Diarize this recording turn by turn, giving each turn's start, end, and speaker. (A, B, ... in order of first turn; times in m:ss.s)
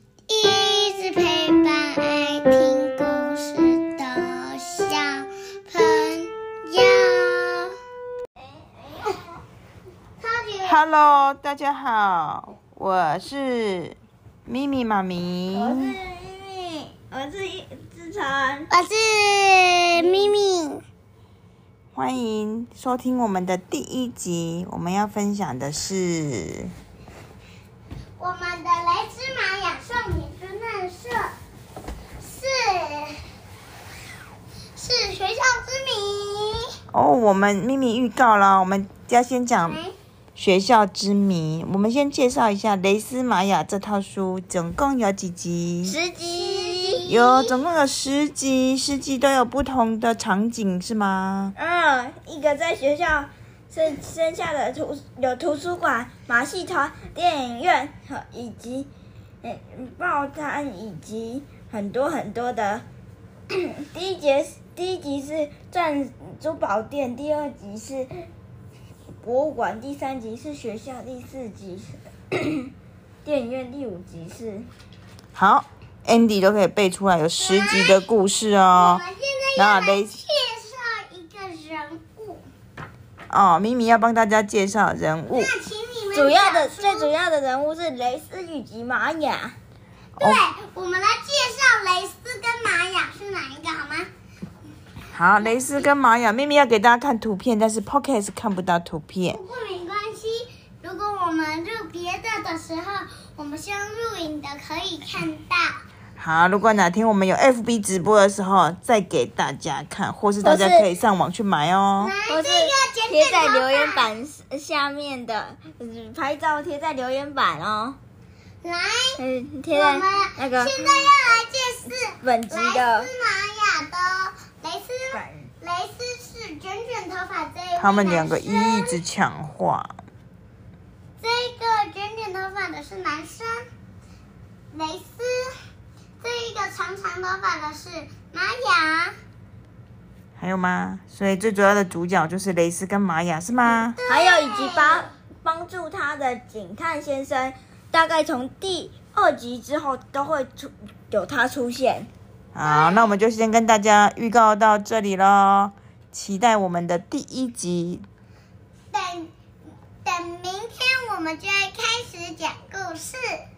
0:00.3-0:07.7 A
0:10.2-0:10.8 A
0:10.6-0:16.0 B
0:15.5-0:18.7 C
0:18.7-0:20.8 A
0:20.0-0:20.3 C
0:22.0-0:26.7 B
0:28.2-0:31.3 A
0:32.2-0:33.2 A
0:34.8-0:36.7 A
0:36.9-0:39.8 B
0:39.6-0:39.9 A
0:40.4-0:46.0 B
0:45.8-0:47.5 C
0:46.4-0:47.0 A
0:47.1-0:51.6 B
0:51.6-0:58.9 C
0:59.4-1:02.8 C
1:03.5-1:08.3 C
1:09.2-1:12.7 C
1:13.2-1:14.7 C
1:15.4-1:19.0 B
1:17.4-1:18.1 A
1:18.7-1:22.4 A
1:19.6-1:20.2 B
1:23.3-1:25.5 B
1:25.3-1:27.1 A
1:26.1-1:29.6 C
1:30.2-1:34.1 A
1:35.1-1:39.4 B
1:39.3-1:45.8 A
1:46.2-1:52.1 B
1:50.4-1:50.9 C
1:52.0-1:54.1 A
1:52.3-1:58.0 C
1:58.6-1:59.2 A
1:59.2-2:01.4 C
1:59.7-2:09.0 A
2:02.2-2:03.1 C
2:05.1-2:05.5 C
2:07.8-2:10.0 B
2:11.2-2:13.7 A
2:14.7-2:15.6 A
2:16.2-2:19.1 A
2:20.4-2:24.0 B
2:23.6-2:25.0 A
2:24.1-2:32.1 C
2:32.6-2:38.0 B
2:32.6-2:33.1 A
2:38.9-2:39.3 A
2:40.0-2:43.4 A